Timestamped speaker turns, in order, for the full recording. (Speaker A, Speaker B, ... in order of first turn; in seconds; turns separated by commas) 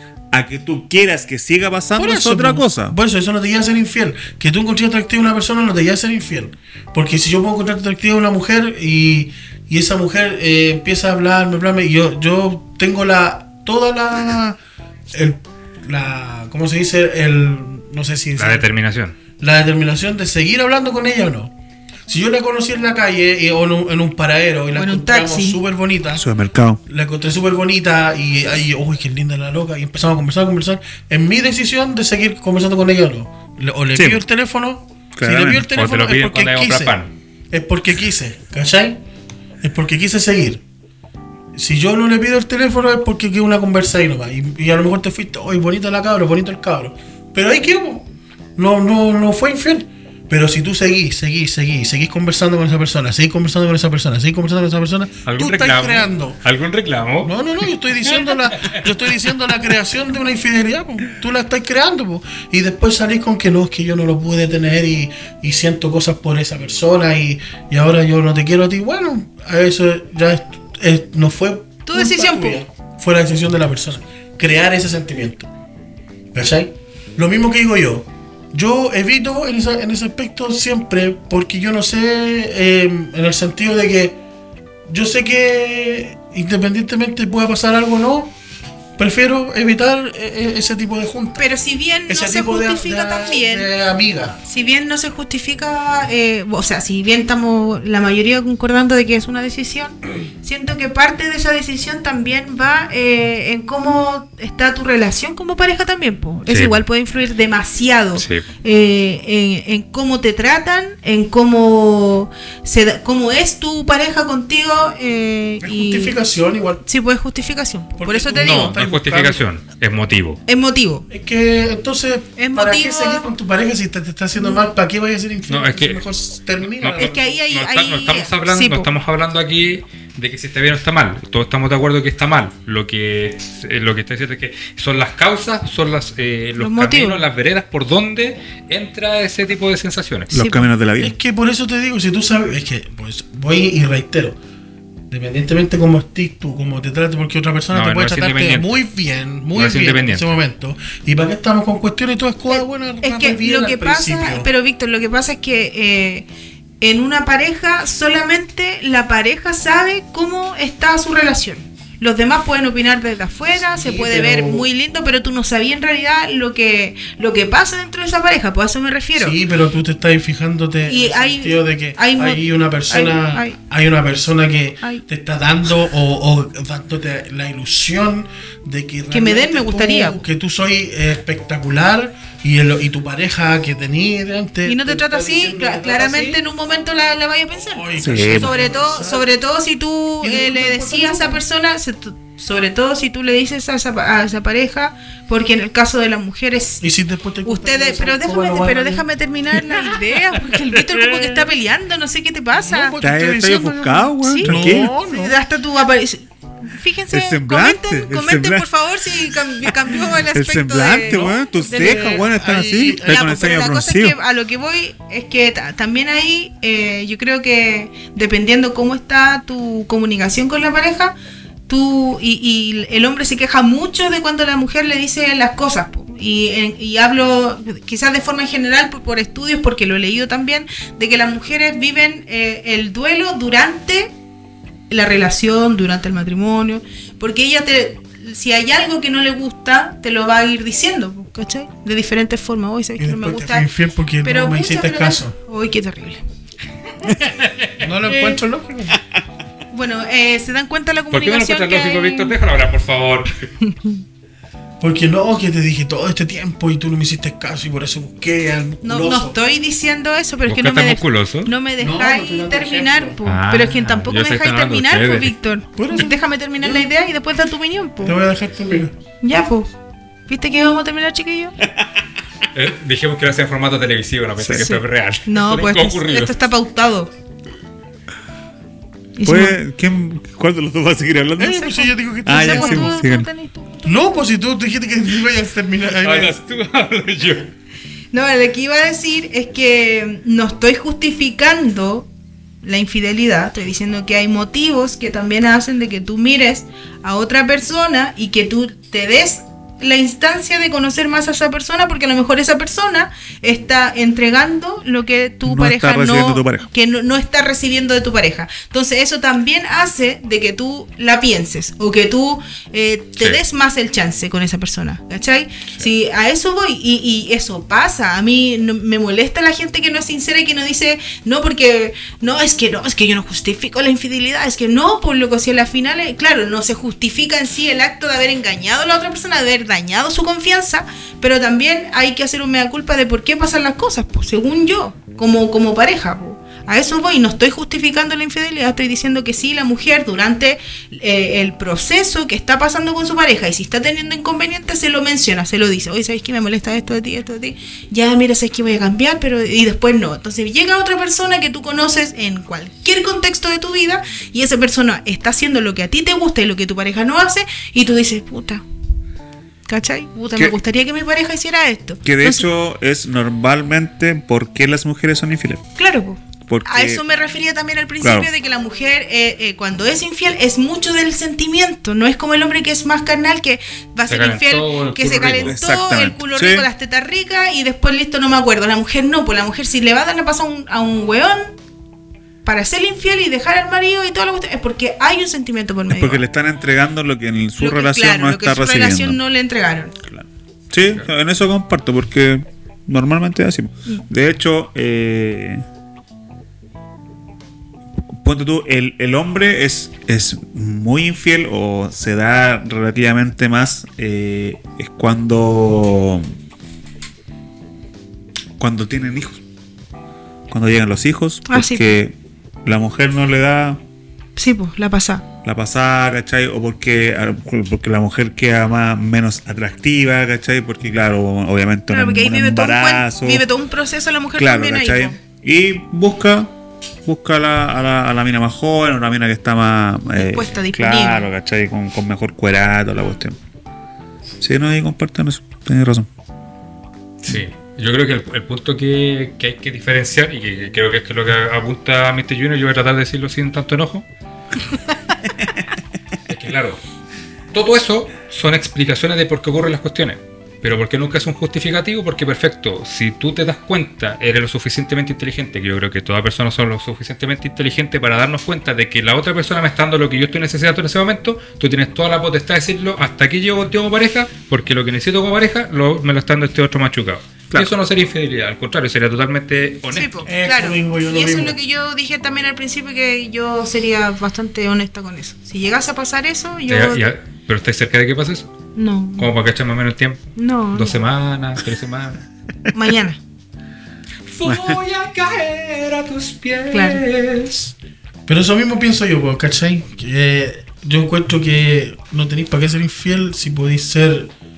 Speaker A: 0.3-3.0, Speaker B: 1.9-14.6, Speaker B: 15.1-18.7, Speaker C: 18.4-19.1, Speaker B: 19.4-21.5, Speaker B: 22.1-26.3, Speaker D: 24.7-25.6, Speaker A: 26.2-26.8, Speaker B: 26.9-37.0, Speaker A: 34.0-34.2, Speaker A: 35.1-35.6, Speaker C: 35.7-37.1, Speaker B: 37.5-39.0, Speaker B: 39.6-40.6, Speaker B: 41.5-56.4, Speaker C: 55.2-57.3, Speaker B: 57.2-75.5, Speaker C: 58.1-58.8, Speaker D: 71.9-72.6, Speaker B: 76.3-84.2, Speaker B: 84.9-88.3, Speaker B: 89.0-91.5, Speaker D: 91.4-93.7, Speaker B: 92.1-94.4, Speaker D: 94.5-116.2, Speaker C: 106.5-106.8, Speaker C: 108.2-108.5, Speaker B: 115.6-116.8, Speaker D: 116.8-118.8, Speaker B: 118.0-119.4, Speaker C: 118.4-120.4, Speaker D: 120.5-121.1, Speaker B: 121.1-127.1, Speaker D: 122.4-123.3, Speaker D: 124.4-124.6, Speaker C: 125.5-126.0, Speaker C: 126.8-140.3, Speaker D: 127.0-128.9, Speaker D: 136.6-137.2, Speaker A: 140.3-141.2, Speaker D: 140.3-140.7, Speaker B: 141.0-144.4, Speaker B: 145.1-154.5, Speaker C: 147.7-148.8, Speaker C: 149.5-150.3, Speaker D: 152.5-156.3, Speaker D: 156.8-169.4, Speaker B: 163.7-164.7, Speaker B: 169.2-186.4, Speaker D: 170.9-173.6, Speaker D: 179.1-180.2, Speaker D: 184.7-196.8, Speaker B: 187.7-189.3, Speaker A: 188.0-188.6, Speaker B: 190.2-191.4, Speaker B: 196.8-199.1, Speaker D: 197.4-203.0, Speaker B: 202.6-205.4, Speaker A: 203.0-204.9, Speaker D: 204.1-221.2, Speaker A: 207.1-208.7, Speaker A: 209.3-214.2, Speaker B: 211.7-213.2, Speaker D: 221.7-234.1, Speaker D: 234.9-243.7, Speaker B: 243.0-245.3, Speaker D: 244.2-246.2, Speaker C: 247.4-247.7, Speaker B: 247.8-249.0, Speaker D: 249.7-252.4, Speaker C: 251.1-253.4, Speaker D: 253.6-254.0, Speaker B: 254.8-259.4, Speaker D: 258.8-268.2, Speaker C: 260.4-261.5, Speaker B: 261.8-263.2, Speaker C: 263.2-265.3, Speaker B: 265.8-266.9, Speaker B: 268.0-268.9, Speaker D: 269.2-269.7, Speaker D: 270.3-271.6, Speaker C: 272.5-276.4, Speaker A: 274.4-274.7, Speaker D: 274.6-277.1, Speaker D: 279.2-279.6, Speaker A: 279.2-281.7, Speaker B: 281.4-282.9, Speaker D: 281.4-284.3, Speaker A: 282.2-283.3, Speaker B: 283.9-286.4, Speaker C: 286.0-287.5, Speaker D: 288.1-292.1, Speaker D: 292.6-358.6, Speaker A: 305.4-306.7, Speaker D: 359.7-362.5, Speaker A: 362.1-365.6, Speaker D: 365.8-381.6, Speaker A: 366.5-367.0, Speaker A: 368.0-368.3, Speaker C: 374.1-375.6, Speaker A: 375.4-376.7, Speaker D: 382.4-386.2, Speaker A: 385.9-389.2, Speaker D: 387.6-389.9, Speaker A: 390.0-395.6, Speaker A: 398.1-406.3, Speaker A: 408.6-409.4, Speaker A: 410.5-413.8, Speaker D: 411.4-412.0, Speaker D: 414.4-415.2, Speaker A: 415.4-423.4, Speaker D: 421.9-425.2, Speaker A: 424.4-426.5, Speaker A: 427.0-433.4, Speaker D: 430.1-431.3, Speaker A: 434.4-436.1, Speaker C: 437.2-444.1, Speaker C: 446.3-446.8, Speaker C: 447.5-470.3, Speaker D: 469.9-477.1, Speaker B: 470.2-471.6, Speaker C: 476.7-478.5, Speaker D: 478.7-479.3, Speaker C: 479.2-482.2, Speaker D: 480.4-481.0, Speaker D: 482.7-483.2, Speaker C: 484.3-487.7, Speaker A: 484.4-484.8, Speaker D: 486.7-487.0, Speaker B: 488.3-494.3